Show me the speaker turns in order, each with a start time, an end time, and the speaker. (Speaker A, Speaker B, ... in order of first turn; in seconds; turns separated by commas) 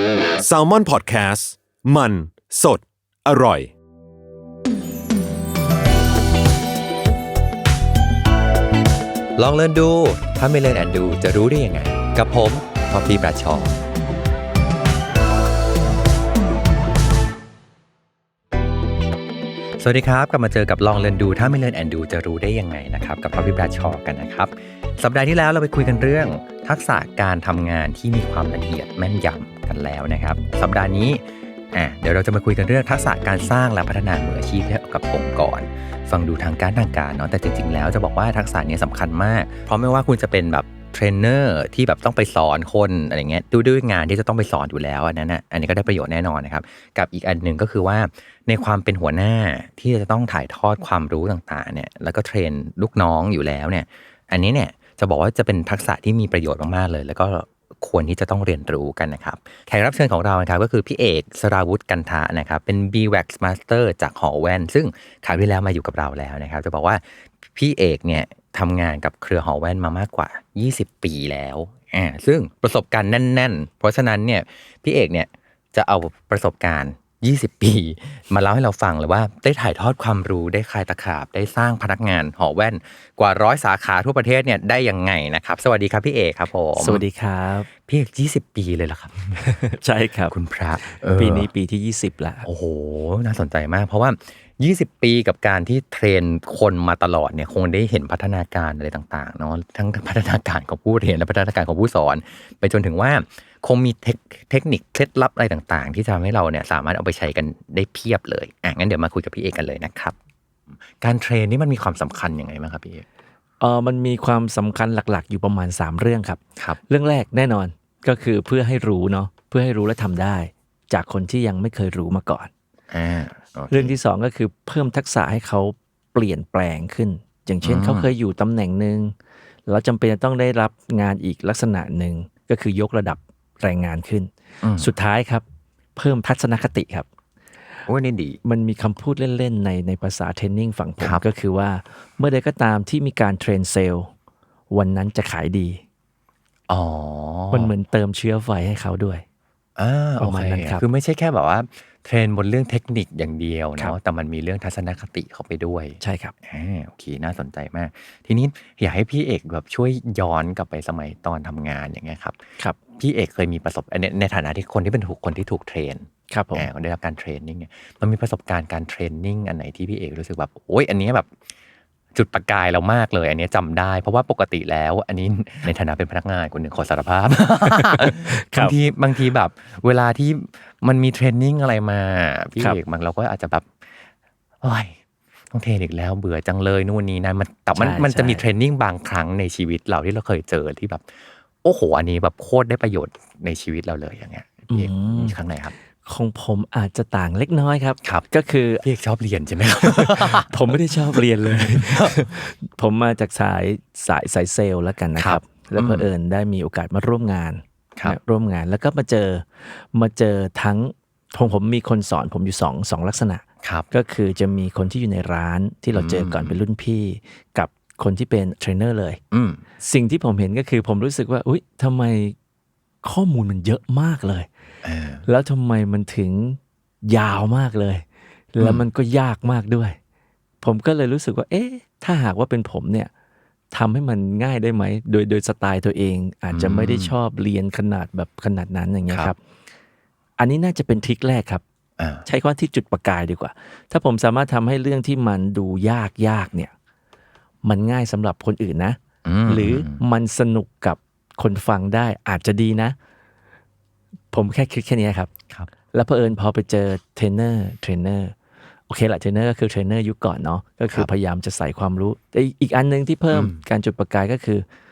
Speaker A: 0.4-3.7, Speaker B: 9.4-13.8, Speaker B: 19.8-87.0, Speaker C: 86.8-87.7, Speaker B: 87.8-89.4, Speaker C: 89.4-92.5, Speaker B: 90.3-91.5, Speaker B: 92.5-110.2, Speaker B: 111.0-113.0, Speaker C: 113.6-122.5, Speaker B: 122.9-123.9, Speaker C: 123.7-129.2, Speaker B: 127.6-128.1, Speaker C: 129.7-135.4, Speaker B: 134.6-134.9, Speaker C: 136.0-137.1, Speaker B: 137.9-138.4, Speaker C: 138.4-144.1, Speaker C: 144.7-145.8, Speaker B: 146.7-147.7, Speaker C: 147.5-149.2, Speaker B: 149.8-162.4, Speaker C: 150.2-150.8, Speaker C: 156.0-156.3, Speaker B: 162.9-171.3, Speaker C: 166.3-166.7, Speaker B: 172.1-184.1, Speaker C: 177.7-178.8, Speaker B: 184.6-185.0, Speaker B: 185.5-191.1, Speaker C: 187.8-188.4, Speaker B: 191.6-195.7, Speaker C: 194.7-195.4, Speaker C: 196.1-198.8, Speaker B: 198.8-202.3, Speaker C: 199.8-219.2, Speaker B: 205.2-206.1, Speaker B: 213.6-213.9, Speaker B: 215.9-216.6, Speaker B: 219.3-219.6, Speaker C: 219.8-222.4, Speaker C: 223.0-224.5, Speaker B: 224.8-225.2, Speaker C: 225.2-230.0, Speaker B: 228.6-228.8, Speaker C: 230.6-233.1, Speaker C: 233.7-239.4, Speaker B: 236.5-237.1, Speaker C: 240.4-241.6, Speaker B: 242.0-242.2, Speaker C: 242.2-246.7, Speaker C: 247.7-253.0, Speaker B: 249.2-250.0, Speaker C: 254.3-255.3, Speaker C: 255.9-258.4, Speaker C: 258.9-264.7, Speaker B: 263.3-263.6